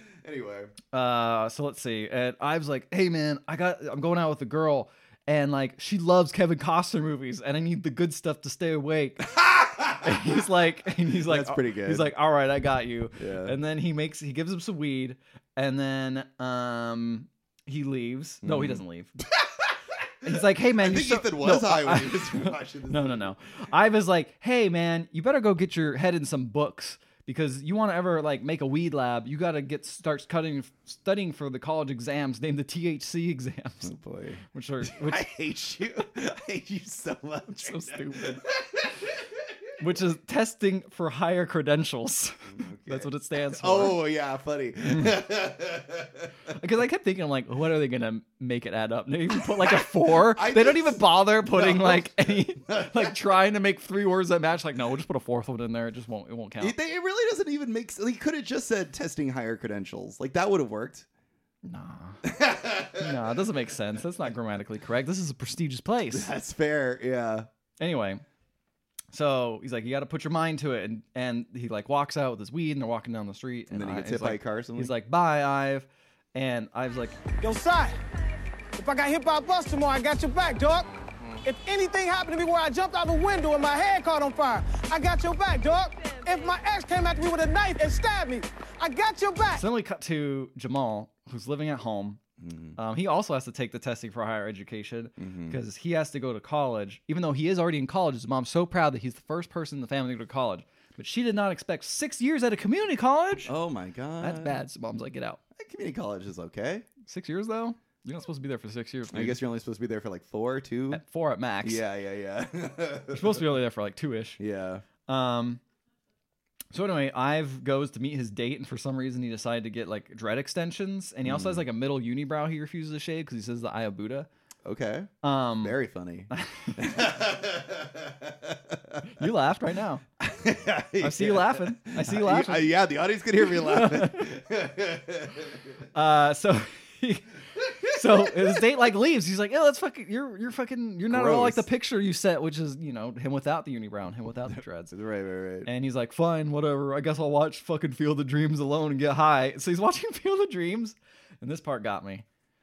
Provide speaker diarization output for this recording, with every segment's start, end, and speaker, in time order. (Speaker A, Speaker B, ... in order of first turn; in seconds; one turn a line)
Speaker A: 0.2-0.7
Speaker B: 0.9-9.2
Speaker A: 9.2-10.4
Speaker B: 10.0-19.1
Speaker A: 11.1-12.1
Speaker A: 13.2-13.5
Speaker A: 18.4-23.3
Speaker B: 20.2-33.9
Speaker A: 33.8-39.2
Speaker B: 34.5-35.2
Speaker B: 37.5-38.4
Speaker B: 39.8-44.0
Speaker A: 42.5-46.5
Speaker B: 44.9-45.1
Speaker B: 46.5-56.7
Speaker A: 49.4-53.2
Speaker A: 56.6-61.0
Speaker B: 61.6-62.2
Speaker A: 62.2-63.2
Speaker B: 62.9-66.3
Speaker A: 66.1-67.5
Speaker B: 67.8-68.2
Speaker B: 69.1-77.2
Speaker A: 73.7-74.9
Speaker C: 77.4-78.0
Speaker C: 78.8-80.9
Speaker C: 81.4-89.6
Speaker B: 89.6-92.2
Speaker A: 92.4-92.8
Speaker B: 92.8-103.5
Speaker A: 95.2-95.6
Speaker A: 103.5-104.5
Speaker B: 104.2-105.4
Speaker A: 105.5-106.8
Speaker B: 107.0-109.4
Speaker A: 109.1-111.0
Speaker B: 110.9-111.8
Speaker A: 111.6-113.5
Speaker B: 113.1-114.4
Speaker A: 114.4-114.8
Speaker B: 115.1-115.6
Speaker B: 116.7-124.3
Speaker A: 121.2-121.6
Speaker A: 124.6-125.1
Speaker B: 125.2-125.8
Speaker A: 125.6-129.2
Speaker B: 126.3-126.8
Speaker B: 129.1-130.0
Speaker A: 130.2-135.8
Speaker B: 131.0-132.7
Speaker B: 133.4-134.3
Speaker B: 135.9-137.2
Speaker A: 137.6-138.6
Speaker B: 137.8-144.9
Speaker A: 141.1-141.6
Speaker A: 144.5-145.7
Speaker B: 145.6-152.2